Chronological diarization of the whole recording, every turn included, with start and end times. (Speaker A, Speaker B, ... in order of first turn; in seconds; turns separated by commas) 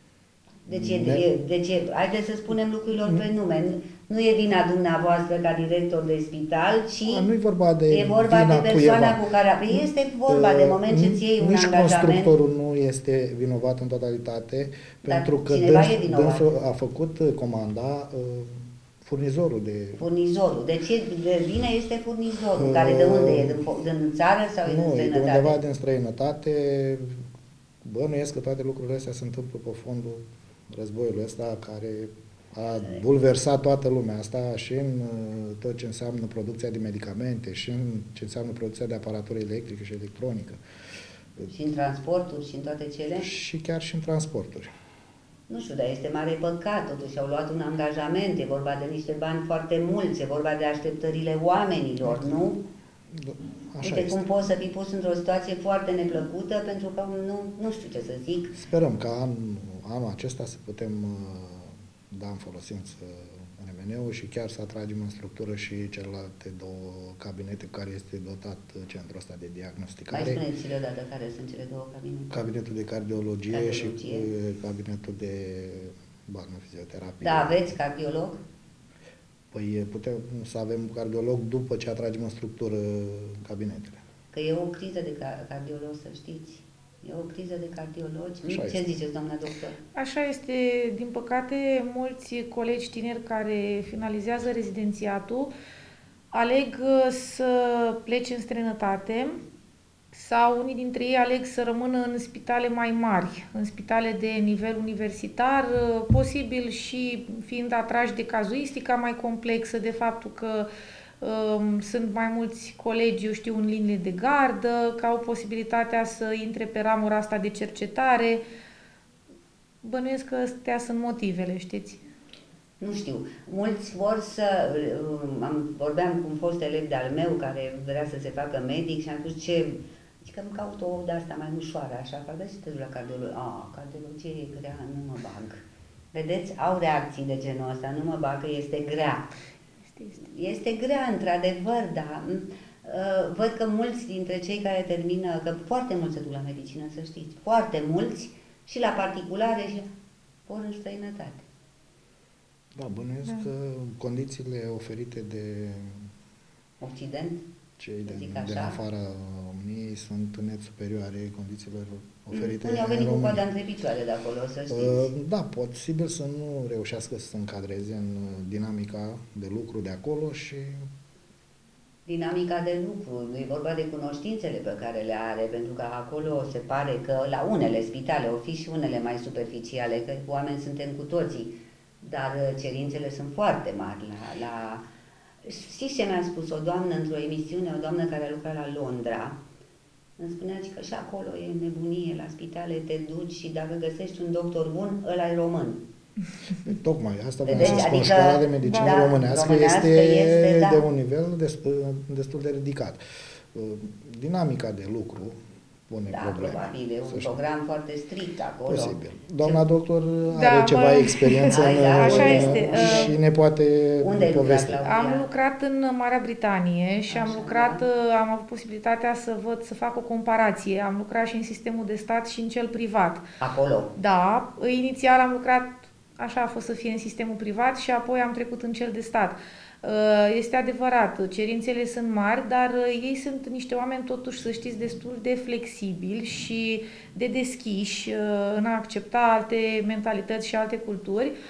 Speaker A: 0.7-7.3, Speaker B: 0.7-1.2, Speaker B: 7.0-9.2, Speaker A: 7.9-12.3, Speaker B: 9.7-20.0, Speaker A: 15.0-16.5, Speaker A: 20.0-25.6, Speaker B: 22.5-23.6, Speaker B: 24.6-27.2, Speaker B: 27.8-40.6, Speaker A: 41.5-43.3, Speaker B: 43.2-44.7, Speaker A: 45.5-52.6, Speaker B: 52.0-52.3, Speaker B: 53.1-54.2, Speaker A: 53.8-58.6, Speaker B: 58.5-70.4, Speaker A: 70.1-72.3, Speaker B: 72.3-77.6, Speaker A: 73.5-74.3, Speaker A: 77.2-78.4, Speaker B: 79.5-84.0, Speaker A: 84.3-89.8, Speaker B: 88.5-88.9, Speaker C: 90.0-95.5, Speaker C: 96.3-99.4, Speaker C: 100.1-110.7, Speaker C: 111.2-118.4, Speaker C: 119.8-122.0, Speaker A: 122.8-135.6, Speaker A: 136.1-139.3, Speaker A: 140.2-149.9, Speaker A: 150.5-151.4, Speaker B: 152.8-156.1, Speaker A: 156.8-157.4, Speaker B: 157.8-163.4, Speaker A: 158.1-158.8, Speaker A: 162.3-165.1, Speaker B: 164.7-170.9, Speaker A: 172.1-184.8, Speaker A: 185.4-189.4, Speaker A: 190.2-195.8, Speaker B: 196.6-205.4, Speaker A: 197.5-200.8, Speaker C: 198.6-199.0, Speaker B: 205.9-207.4, Speaker A: 206.1-209.6, Speaker B: 208.7-214.8, Speaker C: 210.3-213.1, Speaker A: 211.5-213.2, Speaker A: 214.0-215.3, Speaker C: 214.8-223.2, Speaker A: 217.1-217.8, Speaker A: 223.4-223.9, Speaker C: 223.9-241.3